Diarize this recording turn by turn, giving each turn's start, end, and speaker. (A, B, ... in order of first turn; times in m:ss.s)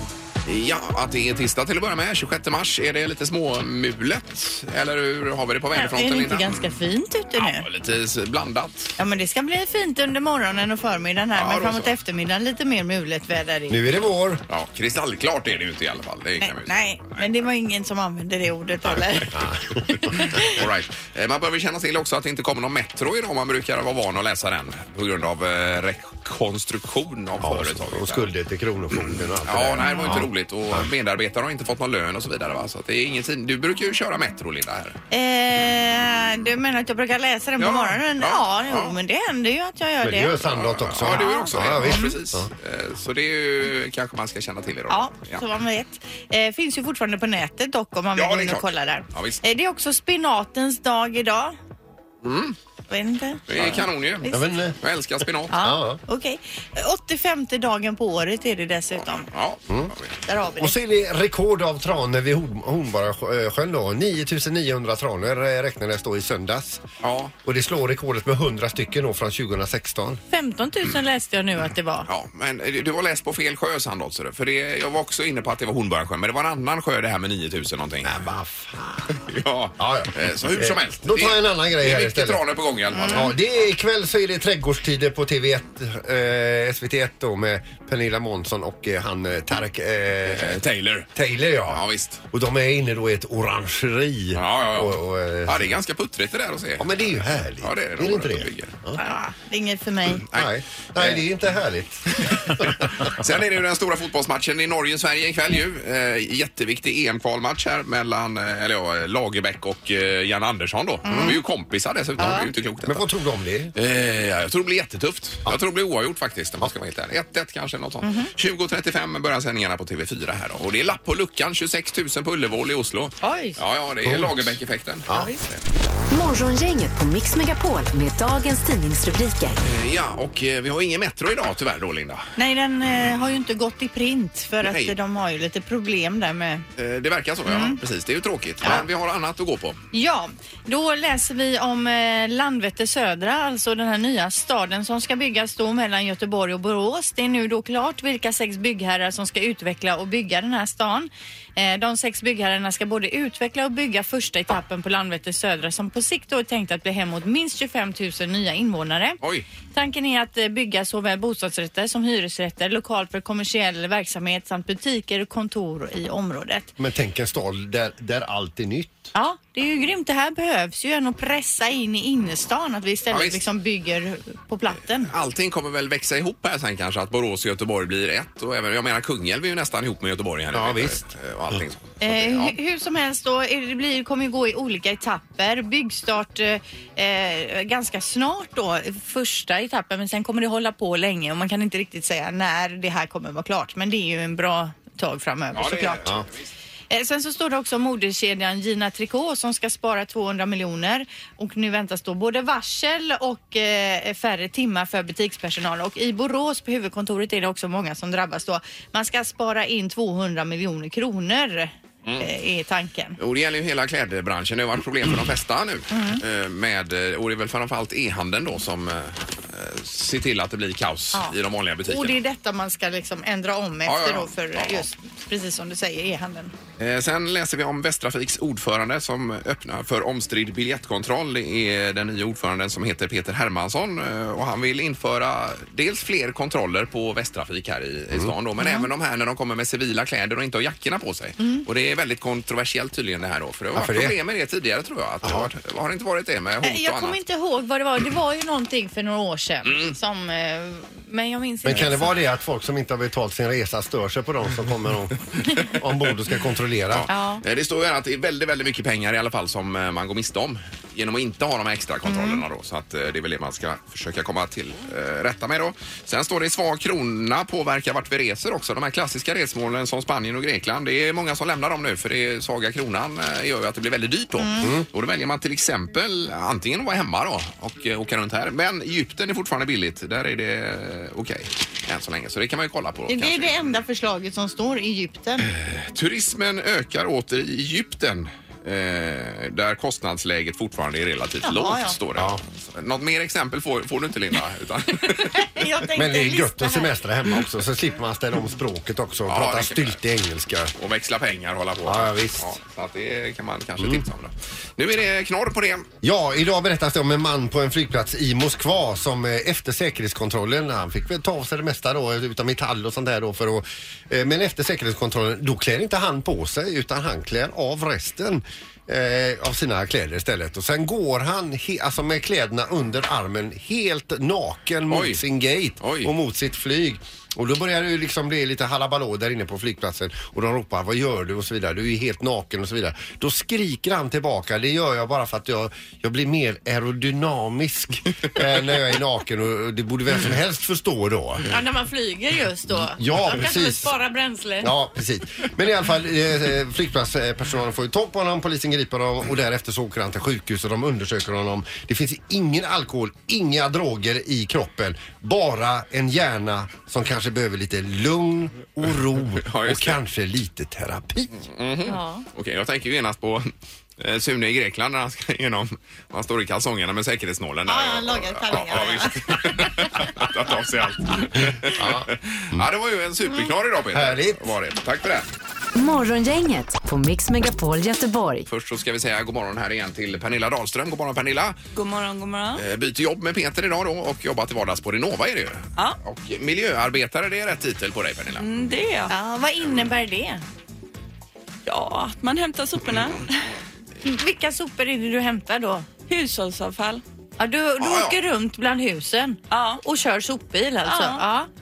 0:00.4-0:06.7 A
0:05.7-0:07.7 B
0:07.3-0:09.0 A
0:09.0-0:13.8 B
0:11.3-0:11.9 A
0:13.7-0:14.4 C
0:14.5-0:17.2 A
0:16.4-0:19.3 B
0:19.3-0:20.2 C
0:19.9-0:20.5 B
0:20.4-0:28.3 A
0:27.4-0:30.8 C
0:29.4-0:35.0 A
0:29.8-0:30.2 B
0:35.1-0:40.4 B
0:37.6-0:39.0 A
0:40.0-0:42.5 C
0:40.4-0:45.4 A
0:41.1-0:42.1 B
0:44.9-0:51.6 B
0:48.2-0:49.4 A
0:52.2-0:52.6 A
0:52.9-0:54.4 B
0:53.5-0:54.3 A
0:53.5-0:54.8 C
0:54.8-0:55.5 A
0:55.5-0:59.3 B
0:55.6-0:56.0 C
0:59.3-1:00.1 A
1:00.2-1:00.7 B
1:00.6-1:06.8 C
1:07.0-1:07.3 A
1:07.4-1:10.2 C
1:10.3-1:12.1 B
1:12.1-1:18.2 A
1:18.0-1:19.2 C
1:19.1-1:23.4 A
1:19.8-1:22.4 C
1:22.9-1:23.2 B
1:23.0-1:30.6 C
1:30.3-1:31.1 A
1:31.1-1:35.7 C
1:31.7-1:32.2 A
1:34.3-1:38.7 A
1:36.8-1:39.0 C
1:38.9-1:40.2 B
1:40.2-1:41.2 A
1:40.3-1:43.1 C
1:42.1-1:53.1 A
1:51.0-1:51.4 B
1:52.2-1:53.7 C
1:52.2-1:52.5 B
1:53.7-2:05.6 A
1:58.0-1:58.3 B
2:03.2-2:03.6 B
2:04.0-2:04.4 C
2:05.1-2:05.4 B
2:06.1-2:09.6 D
2:09.6-2:12.2 A
2:12.4-2:16.6 B
2:14.6-2:14.9 A
2:16.8-2:19.8 A
2:17.4-2:17.8 B
2:19.9-2:39.2 B
2:39.7-2:46.7 B
2:46.8-2:49.1 C
2:49.1-2:55.1 B
2:53.1-2:53.4 A
2:55.1-3:02.6 A
3:00.5-3:01.0 C
3:02.0-3:16.1 B
3:15.5-3:16.5 A
3:16.9-3:33.2 B
3:33.2-3:42.2 A
3:35.9-3:36.2 B
3:41.1-3:46.5 B
3:43.8-3:44.8 A
3:46.8-4:07.2 A
3:58.6-3:58.9 B
4:01.4-4:01.6 B
4:03.7-4:04.1 C
4:05.2-4:05.5 C
4:06.6-4:12.1 B
4:09.6-4:09.9 A
4:11.6-4:17.1 C
4:16.9-4:43.8 A
4:17.1-4:17.4 B
4:22.0-4:22.4 B
4:34.4-4:34.7 B
4:43.1-4:45.5 B
4:45.4-4:55.5 A
4:51.4-4:52.0 B
4:52.2-4:52.4 C
4:55.1-4:56.9 B
4:56.0-5:00.7 C
4:59.3-5:00.0 A
5:00.8-5:05.9 A
5:01.8-5:02.5 C
5:06.0-5:41.4 C
5:24.9-5:25.2 A
5:25.8-5:26.1 A
5:41.5-5:44.7 B
5:42.7-5:43.9 C
5:44.6-6:01.4 C
5:59.4-6:00.0 A
6:01.4-6:15.3 A
6:01.8-6:02.2 B
6:07.6-6:09.9 B
6:11.6-6:12.6 C
6:13.9-6:14.5 C
6:15.7-6:18.5 D
6:18.5-6:21.6 A
6:21.7-6:22.6 E
6:22.6-6:28.5 A
6:28.4-6:29.1 E
6:29.1-6:30.4 B
6:31.6-6:33.5 E
6:34.0-6:35.9 B
6:36.1-6:37.0 E
6:37.4-6:41.5 B
6:37.8-6:38.2 A
6:39.5-6:39.8 E
6:40.8-6:41.2 E